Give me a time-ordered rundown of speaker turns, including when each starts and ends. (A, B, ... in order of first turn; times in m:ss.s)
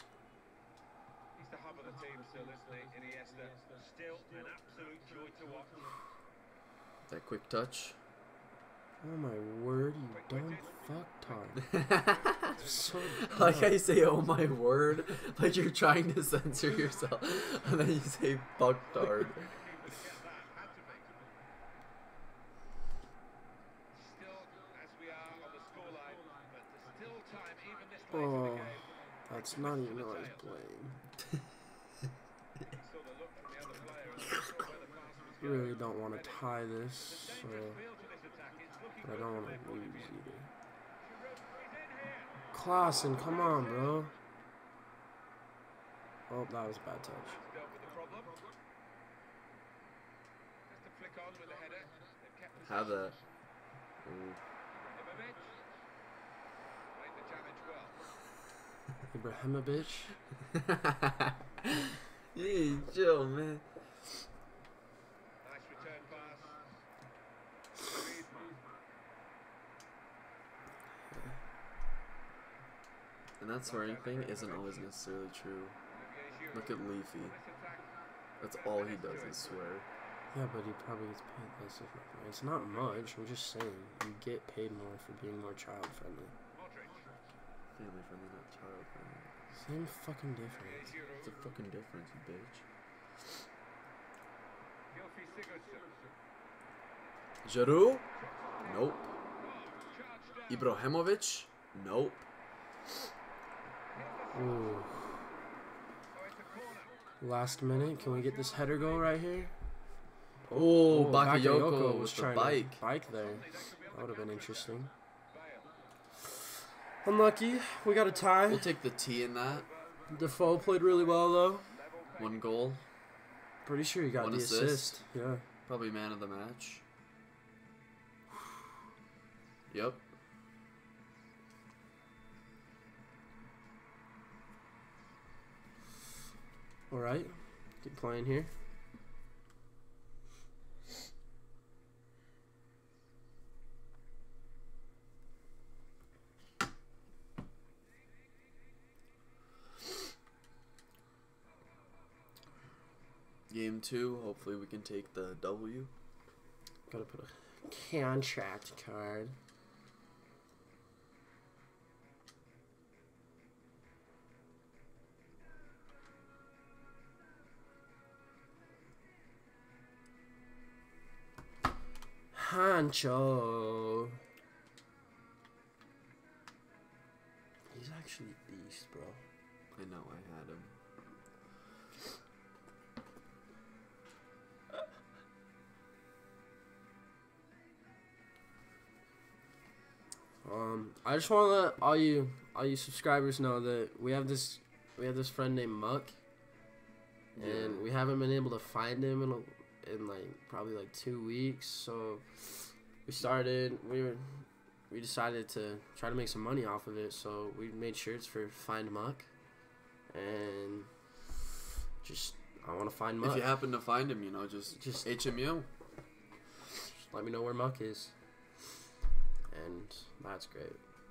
0:01.4-0:03.6 A
0:03.7-0:06.0 B
0:07.1-0:08.0 C
0:09.0-0:11.6 D
0:10.1-0:13.4 A
0:11.6-0:19.5 C
0:12.6-0:13.8 D
0:16.4-0:17.5 A
0:18.6-0:21.1 A
0:23.9-0:30.6 A
0:28.1-0:31.0 D
0:32.7-0:40.2 A
0:35.4-0:37.8 D
0:39.0-0:40.5 D
0:41.0-0:44.1 A
0:42.5-0:44.1 D
0:46.3-0:47.4 D
0:47.2-0:48.4 A
0:50.7-0:52.9 A
0:52.6-0:53.2 C
0:54.0-0:54.4 C
0:54.7-0:55.6 A
0:56.9-0:58.0 A
0:59.1-1:00.1 D
1:00.5-1:04.2 C
1:02.4-1:02.7 A
1:05.4-1:06.6 A
1:07.8-1:08.6 A
1:13.4-1:15.8 C
1:13.6-1:14.9 A
1:15.9-1:19.8 A
1:16.5-1:17.4 C
1:18.4-1:19.9 C
1:20.3-1:26.3 D
1:22.6-1:23.1 A
1:26.5-1:27.1 A
1:27.7-1:29.4 C
1:29.6-1:30.9 D
1:30.5-1:31.3 A
1:31.2-1:32.6 C
1:34.9-1:35.9 A
1:37.4-1:38.1 C
1:38.2-1:40.7 A
1:38.6-1:39.1 C
1:40.5-1:42.2 C
1:43.9-1:44.8 A
1:44.3-1:45.0 D
1:46.1-1:49.5 A
1:47.2-1:49.5 D
1:50.4-1:54.9 D
1:50.5-1:52.8 C
1:53.0-1:55.7 A
1:57.0-1:58.7 D
1:57.5-1:58.6 A
1:58.5-1:59.7 C
1:59.3-2:02.5 A
2:00.1-2:01.7 D
2:02.2-2:02.9 C
2:03.6-2:05.4 D
2:04.2-2:05.0 C
2:05.7-2:06.8 C
2:09.7-2:10.0 C
2:16.9-2:18.5 D
2:33.5-2:35.9 C
2:36.9-2:39.4 D
2:52.3-2:54.2 D
2:57.7-2:59.2 D
2:59.7-3:00.8 C
3:10.4-3:16.2 D
3:17.4-3:17.9 C
3:17.4-3:29.3 D
3:30.1-3:30.9 D
3:32.0-3:33.5 D
3:33.2-3:35.7 C
3:34.8-3:35.1 D
3:37.0-3:38.1 D
3:39.5-3:40.8 D